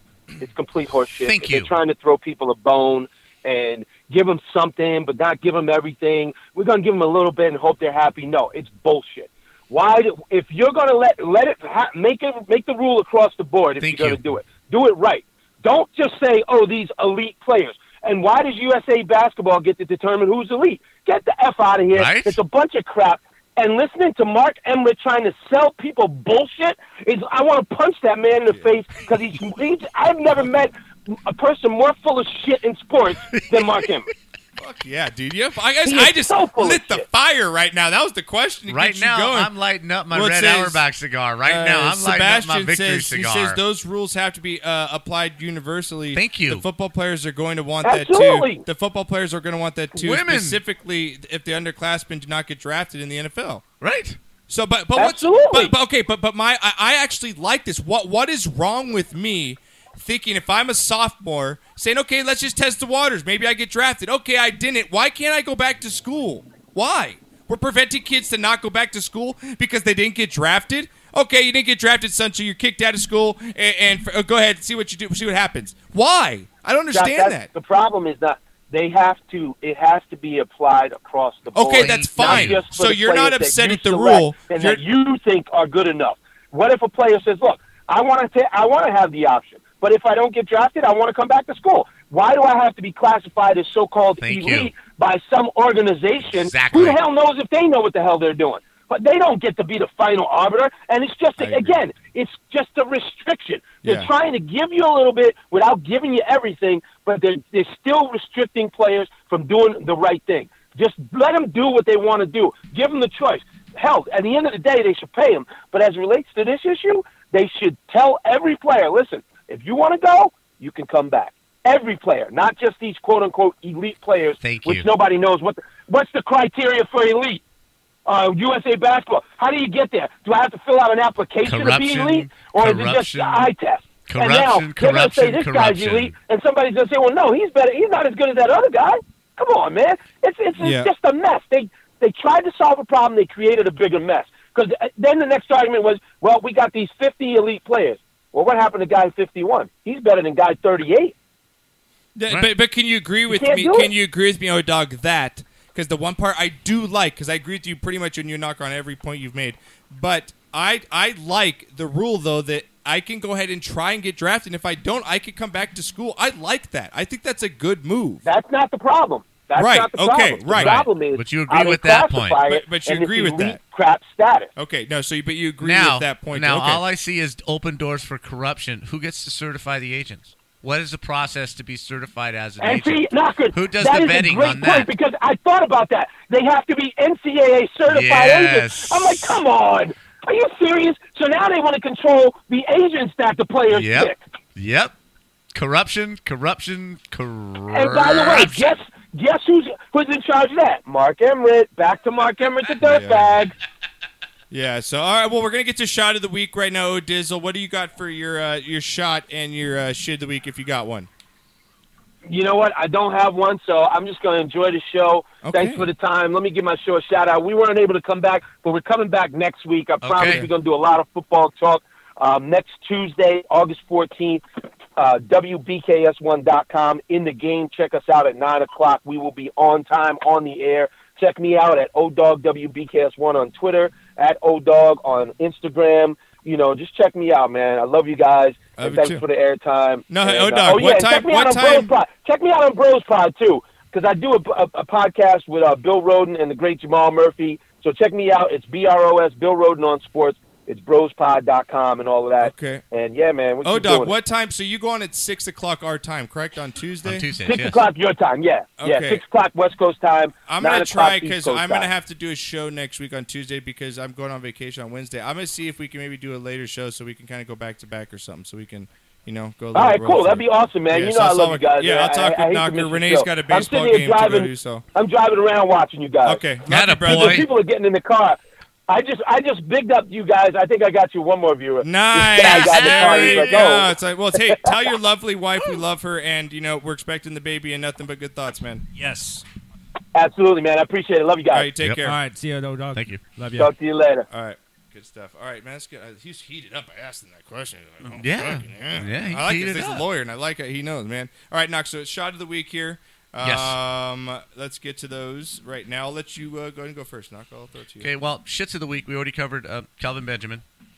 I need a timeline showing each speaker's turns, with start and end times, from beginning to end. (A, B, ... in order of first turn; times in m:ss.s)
0:00.4-0:34.1 A
0:01.2-0:01.7 B
0:13.8-0:14.2 B
0:21.9-0:22.4 B
0:33.3-0:33.7 B
0:34.6-0:39.5 C
0:35.8-0:37.1 A
0:38.7-0:43.6 B
0:40.1-0:40.8 C
0:41.4-0:53.6 C
0:46.1-0:46.6 B
0:47.8-0:48.6 A
0:50.0-0:50.6 B
0:53.8-0:54.2 B
0:54.5-1:17.5 C
0:55.0-0:55.8 A
1:16.9-2:07.4 A
1:21.6-1:24.8 C
1:21.7-1:22.7 B
1:34.2-1:34.7 B
1:36.2-1:37.0 B
1:41.4-1:41.8 C
1:43.8-1:44.1 C
2:04.4-2:04.9 B
2:08.1-2:31.1 A
2:11.4-2:13.4 B
2:14.1-2:16.2 B
2:20.6-2:20.9 C
2:32.2-2:48.2 C
2:33.3-2:33.9 A
2:48.2-2:54.5 A
2:49.6-2:50.9 C
2:50.5-2:52.4 B
2:52.4-2:53.6 C
2:54.6-2:56.8 C
2:55.6-3:04.9 B
3:02.6-3:14.2 A
3:07.9-3:09.4 B
3:13.7-3:14.9 B
3:15.5-3:18.7 B
3:17.7-3:23.6 A
3:22.8-3:23.4 C
3:24.5-3:31.1 C
3:32.3-3:44.4 A
3:35.4-3:35.9 C
3:40.0-3:40.5 B
3:45.0-4:14.2 A
3:58.8-3:59.2 C
4:00.1-4:01.9 C
4:12.4-4:12.8 C
4:13.6-4:17.3 C
4:17.0-4:17.8 B
4:17.4-4:21.9 A
4:18.8-4:19.2 C
4:20.5-4:34.9 C
4:29.7-4:36.4 A
4:36.2-4:37.5 C
4:36.7-4:37.5 B
4:37.0-4:43.9 A
4:41.8-4:48.8 C
4:42.4-4:43.7 B
4:44.4-4:44.8 A
4:49.0-4:49.4 D
4:50.2-4:51.7 A
4:51.5-4:52.2 C
4:52.0-4:53.7 D
4:52.9-4:53.2 B
4:53.6-4:54.3 A
4:54.3-5:08.1 C
4:58.1-5:00.1 B
5:03.4-5:03.8 B
5:08.0-5:10.6 B